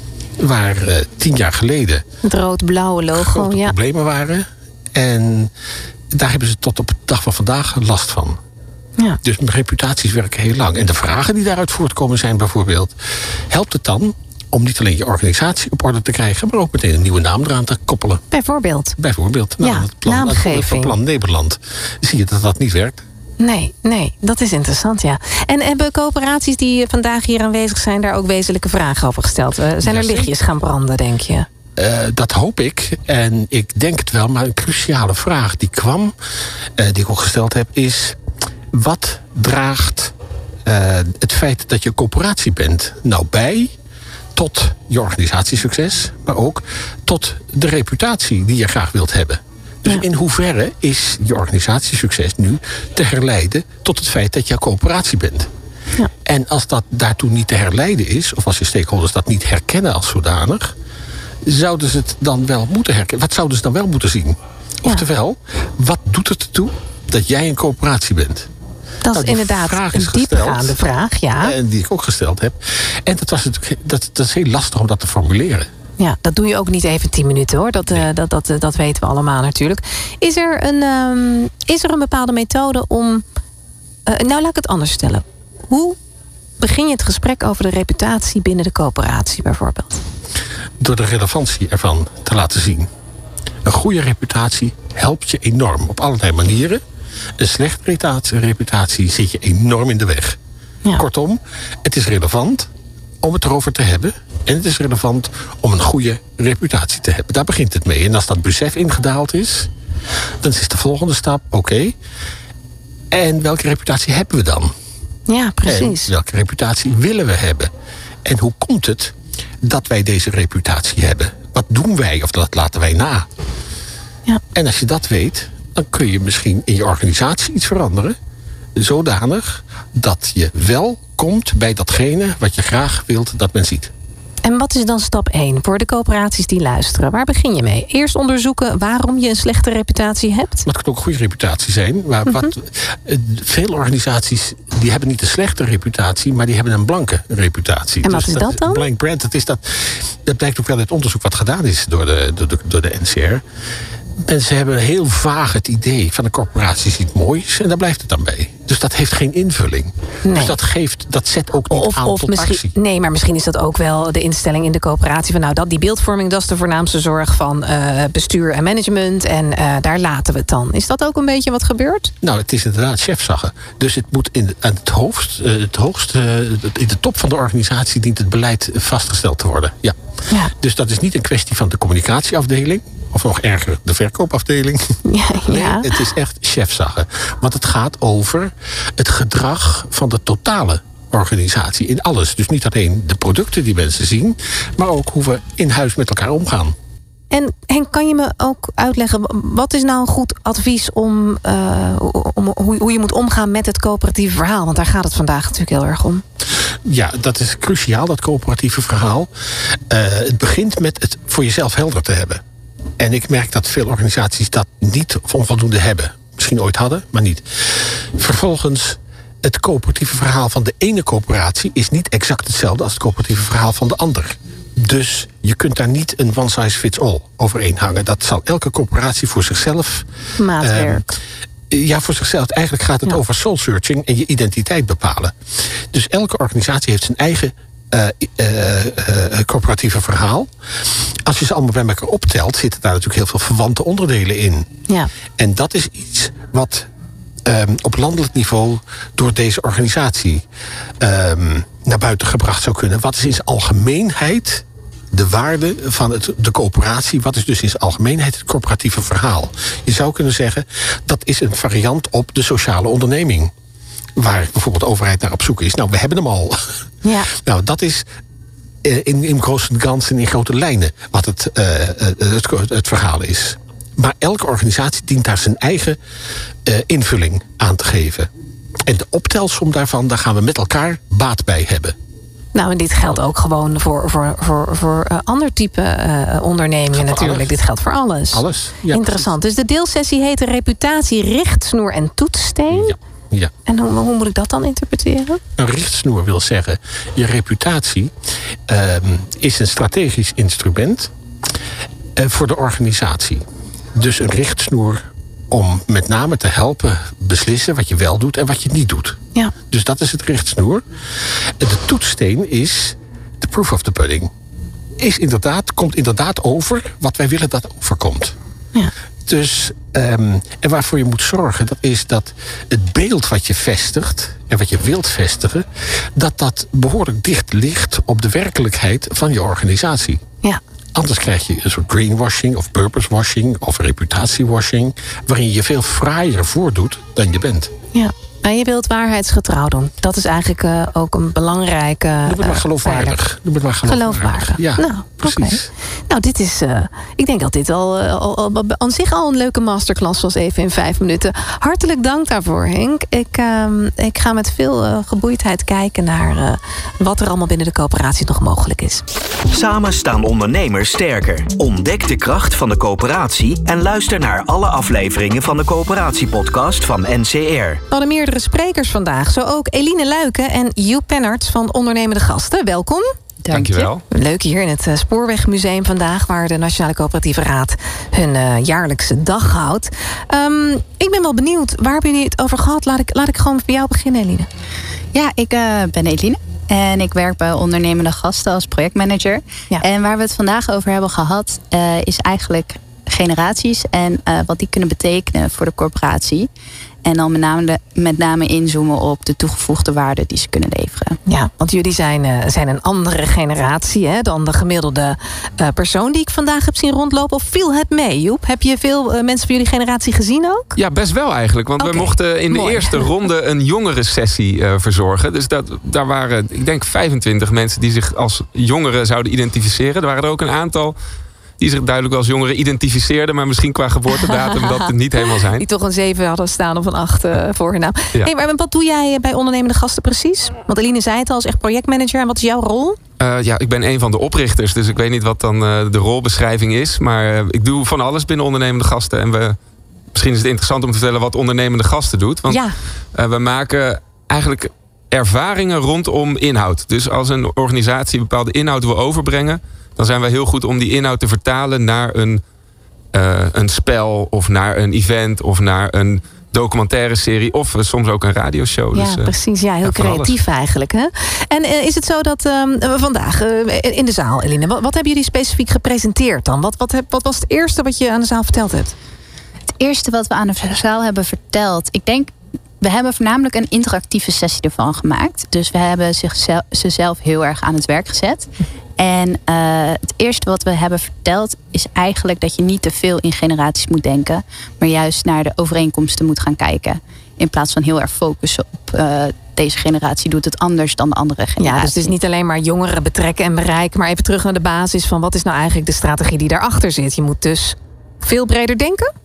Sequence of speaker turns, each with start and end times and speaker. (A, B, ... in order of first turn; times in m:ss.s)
0:00.4-0:02.0 A
0:02.2-0:03.8 B
0:03.1-0:05.5 A
0:06.1-0:08.4 A
0:09.2-0:13.0 A
0:13.5-0:18.2 A
0:18.3-0:19.0 B
0:19.0-0:23.0 A
0:19.6-0:20.9 B
0:23.4-0:31.5 B
0:29.8-0:30.3 A
0:31.8-0:36.1 A
0:36.8-0:38.2 A
0:38.7-0:40.1 A
0:40.6-0:43.7 A
0:44.4-0:55.5 A
0:56.2-1:00.8 A
1:01.4-1:08.5 A
1:09.0-1:11.6 B
1:09.1-1:10.8 A
1:11.4-1:15.7 A
1:16.0-1:23.2 B
1:24.1-1:26.0 B
1:26.6-1:30.0 B
1:30.8-1:32.9 A
1:33.6-1:36.8 A
1:37.4-1:40.4 A
1:41.0-1:42.7 A
1:43.2-1:49.7 A
1:50.4-1:52.0 A
1:53.1-1:54.7 A
1:55.3-1:56.1 B
1:55.6-1:57.7 A
1:58.2-2:03.3 A
2:04.5-2:08.2 A
2:08.8-2:13.9 A
2:14.4-2:20.7 B
2:20.6-2:33.4 A
2:28.0-2:28.9 B
2:34.2-2:42.7 A
2:40.2-2:40.6 B
2:41.7-2:52.1 B
2:52.2-3:16.8 A
3:05.1-3:05.9 B
3:17.3-3:26.2 B
3:26.8-3:29.3 A
3:29.9-3:32.4 A
3:33.0-3:50.1 A
3:50.4-3:51.0 B
3:50.6-3:51.1 A
3:51.7-4:04.7 A
4:05.4-4:06.9 A
4:07.4-4:10.4 A
4:11.0-4:23.5 A
4:24.2-4:26.6 A
4:27.0-4:27.3 B
4:27.3-4:28.1 A
4:28.8-4:36.0 A
4:36.6-4:38.3 A
4:38.9-4:42.0 A
4:42.5-4:53.0 B
4:46.9-4:47.5 A
4:48.3-4:49.3 A
4:52.7-4:53.5 A
4:53.7-4:55.4 B
4:55.6-4:58.1 A
4:58.7-5:01.1 A
5:02.2-5:03.4 A
5:04.0-5:09.2 A
5:09.7-5:14.3 A
5:15.0-5:18.4 A
5:19.3-5:30.2 A
5:31.0-5:37.7 A
5:37.9-5:43.2 B
5:42.2-5:45.7 A
5:43.9-5:59.0 B
5:59.5-6:07.8 C
6:07.9-6:13.1 B
6:13.4-6:13.9 D
6:13.5-6:14.0 E
6:14.1-6:24.5 B
6:25.1-6:36.5 D
6:37.0-6:41.2 D
6:41.3-6:50.7 B
6:50.8-7:01.0 E
6:51.8-6:53.1 B
7:01.6-7:05.6 E
7:04.2-7:13.0 B
7:13.2-7:19.6 E
7:20.1-7:32.4 E
7:22.5-7:22.8 B
7:33.1-7:40.4 E
7:38.9-7:48.9 B
7:49.8-8:12.1 D
8:11.6-8:19.1 B